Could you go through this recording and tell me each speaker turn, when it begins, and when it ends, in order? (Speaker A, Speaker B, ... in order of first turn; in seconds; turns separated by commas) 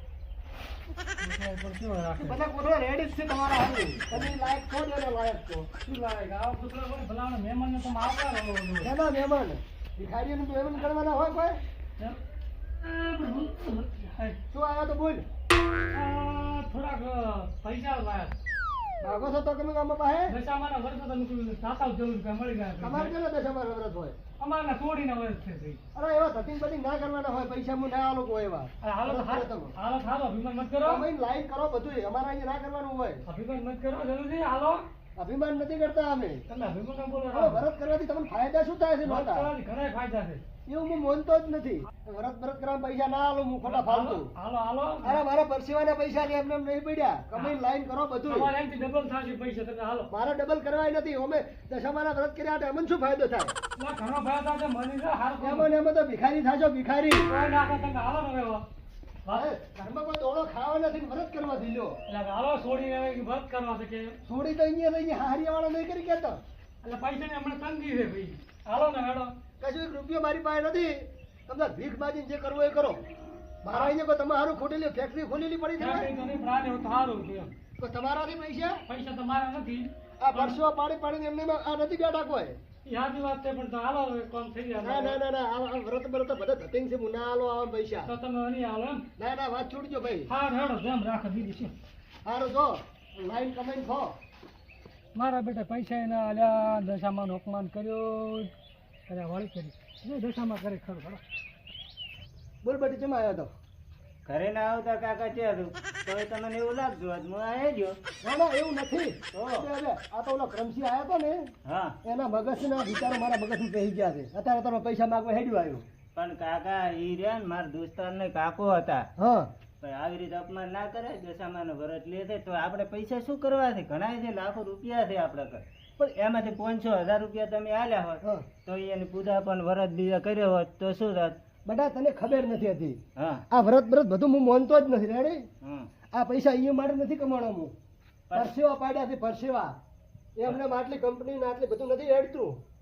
Speaker A: 1.2-2.4, Speaker B: 2.2-5.7, Speaker A: 4.1-4.3, Speaker A: 5.8-8.9, Speaker B: 8.8-11.6, Speaker A: 12.8-14.4, Speaker B: 14.5-15.2, Speaker A: 15.9-18.4, Speaker B: 19.0-20.4, Speaker A: 20.3-23.1, Speaker B: 22.8-24.2, Speaker A: 24.4-25.8, Speaker B: 25.9-29.7, Speaker A: 28.8-31.1, Speaker B: 30.9-33.2, Speaker A: 33.3-34.9, Speaker B: 35.2-36.4, Speaker A: 36.5-37.6, Speaker B: 37.3-39.5, Speaker A: 39.0-40.4, Speaker B: 40.7-44.3, Speaker A: 43.6-45.2, Speaker B: 45.0-48.5, Speaker A: 48.3-50.1, Speaker B: 50.1-53.5, Speaker A: 53.8-55.7, Speaker B: 55.4-57.3, Speaker A: 57.3-58.6, Speaker B: 59.3-62.0, Speaker A: 62.1-64.2, Speaker B: 64.3-66.4, Speaker A: 66.8-69.3, Speaker B: 69.6-73.0, Speaker B: 73.6-76.1, Speaker A: 73.7-74.0, Speaker A: 75.8-77.5, Speaker B: 77.8-78.8, Speaker A: 78.9-80.6, Speaker B: 80.2-82.6, Speaker A: 82.8-85.2, Speaker B: 84.8-88.1, Speaker A: 88.0-89.1, Speaker B: 89.2-90.3, Speaker A: 90.3-91.8, Speaker B: 92.2-94.2, Speaker A: 95.2-98.5, Speaker A: 99.1-101.2, Speaker B: 102.6-103.5, Speaker C: 104.3-108.0, Speaker B: 108.2-111.5, Speaker C: 109.3-109.7, Speaker C: 111.7-112.0, Speaker B: 112.0-115.8, Speaker C: 116.2-119.1, Speaker B: 119.2-119.5, Speaker C: 119.8-131.4, Speaker B: 131.7-133.0, Speaker C: 133.2-133.5, Speaker B: 133.5-135.4, Speaker C: 135.6-135.9, Speaker B: 136.1-137.7, Speaker B: 138.3-139.7, Speaker B: 140.4-142.6